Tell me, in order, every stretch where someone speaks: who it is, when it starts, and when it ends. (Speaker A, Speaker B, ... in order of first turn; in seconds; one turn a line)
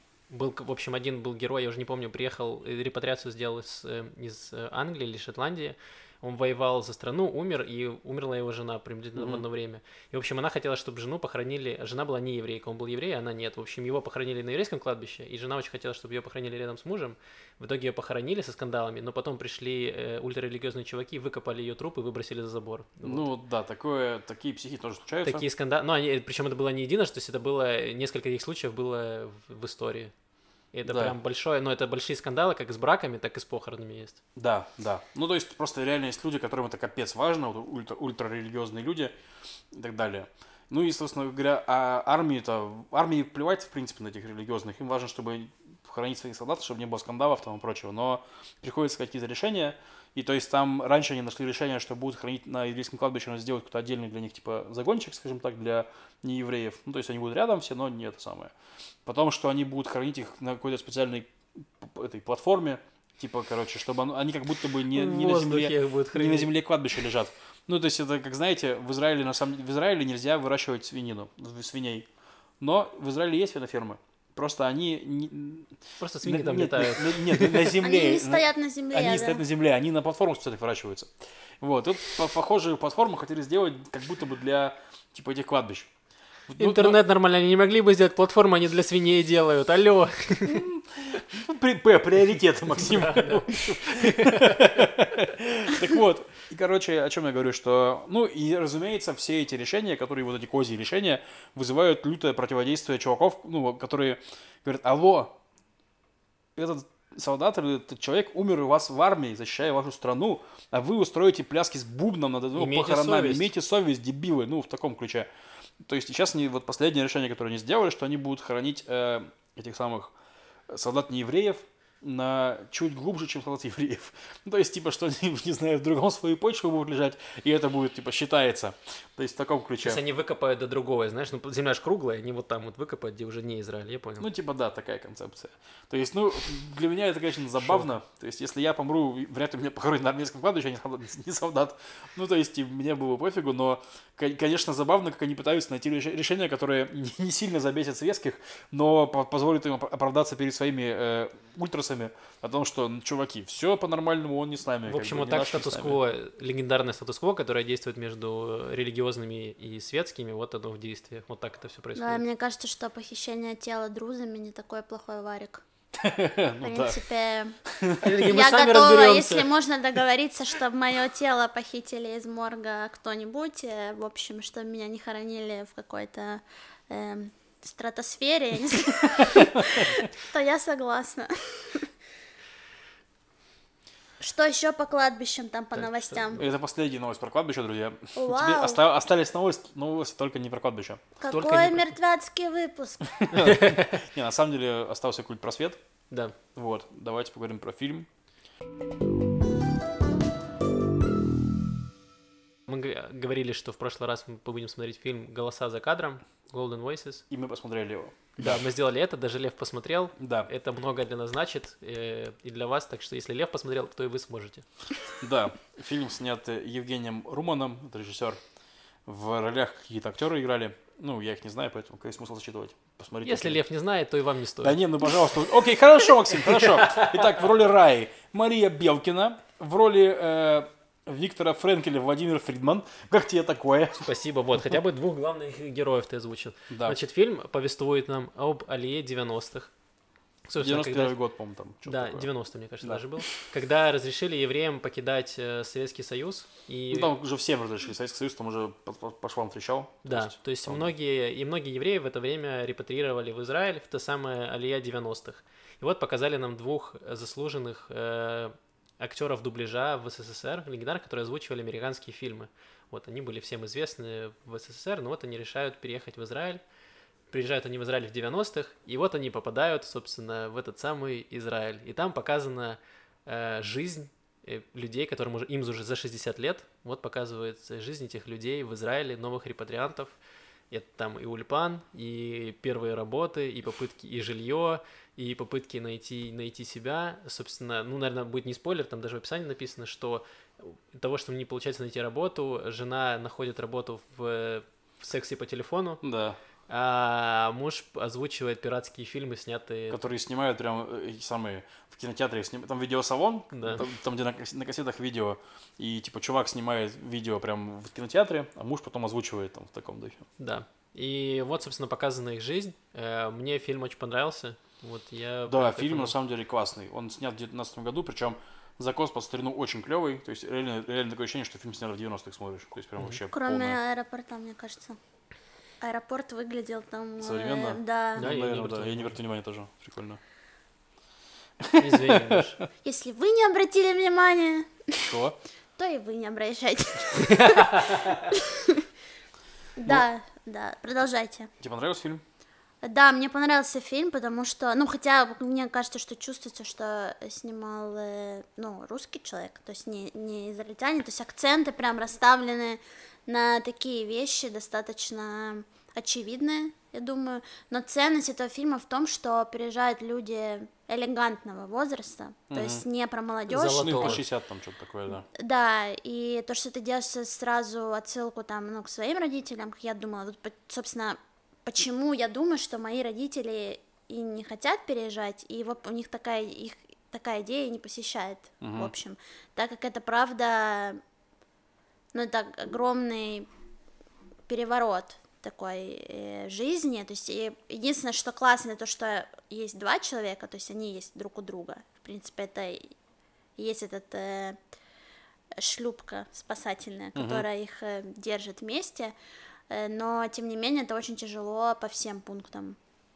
Speaker A: 0.3-23.2
Speaker B: 9.2-9.4
Speaker B: 23.0-25.4
Speaker A: 25.2-30.1
Speaker A: 30.7-34.2
Speaker B: 30.9-31.1
Speaker B: 34.4-39.1
Speaker B: 39.7-58.5
Speaker B: 59.0-72.1
Speaker A: 64.9-66.5
Speaker B: 72.6-85.9
Speaker A: 76.0-77.7
Speaker C: 77.8-79.4
Speaker B: 86.5-87.0
Speaker A: 86.6-90.6
Speaker B: 90.5-105.4
Speaker A: 92.8-94.8
Speaker B: 106.5-115.3
Speaker A: 112.5-113.5
Speaker B: 115.8-120.1
Speaker B: 120.7-130.0
Speaker A: 129.8-134.3
Speaker B: 134.2-156.0
Speaker A: 137.6-137.9
Speaker A: 154.8-162.2
Speaker C: 161.9-165.6
Speaker B: 165.9-167.0
Speaker C: 166.6-167.6
Speaker B: 167.7-168.1
Speaker A: 168.0-169.5
Speaker C: 168.2-181.9
Speaker C: 184.2-186.4
Speaker A: 185.7-186.4
Speaker B: 186.3-191.0
Speaker C: 188.1-188.8
Speaker C: 191.2-193.3
Speaker A: 191.3-191.9
Speaker B: 193.2-195.8
Speaker A: 193.3-194.0
Speaker A: 196.1-196.3
Speaker B: 196.5-198.1
Speaker A: 202.7-207.2
Speaker B: 207.3-208.6
Speaker A: 208.4-214.7
Speaker B: 210.2-210.5
Speaker B: 215.2-218.4
Speaker B: 219.1-223.6
Speaker A: 223.2-224.8
Speaker B: 224.6-234.1
Speaker A: 226.4-227.3
Speaker A: 234.0-239.7
Speaker B: 236.7-237.0
Speaker A: 240.5-241.2
Speaker B: 240.6-242.3
Speaker A: 241.8-247.1
Speaker B: 242.8-243.3
Speaker B: 246.9-250.9
Speaker A: 250.1-266.6
Speaker A: 267.3-280.1
Speaker A: 280.7-296.0
Speaker B: 296.0-296.4
Speaker A: 296.7-300.0
Speaker B: 299.9-310.3
Speaker A: 303.5-303.8
Speaker A: 310.4-316.1
Speaker B: 315.5-323.8
Speaker C: 323.3-325.0
Speaker C: 325.8-328.3
Speaker B: 327.2-330.2
Speaker A: 328.2-329.1
Speaker B: 331.6-332.6
Speaker A: 331.8-332.6
Speaker C: 332.8-335.2
Speaker B: 335.0-335.4
Speaker C: 335.8-338.9
Speaker A: 337.2-338.2
Speaker C: 339.8-341.5
Speaker B: 341.6-342.2
Speaker C: 342.8-364.2
Speaker B: 362.5-362.8
Speaker A: 363.5-364.2
Speaker B: 363.8-365.3
Speaker C: 365.3-381.0
Speaker B: 378.6-378.9
Speaker C: 382.1-383.5
Speaker C: 384.5-392.9
Speaker C: 393.6-394.6
Speaker C: 395.6-399.1
Speaker B: 397.1-397.4
Speaker C: 399.7-402.8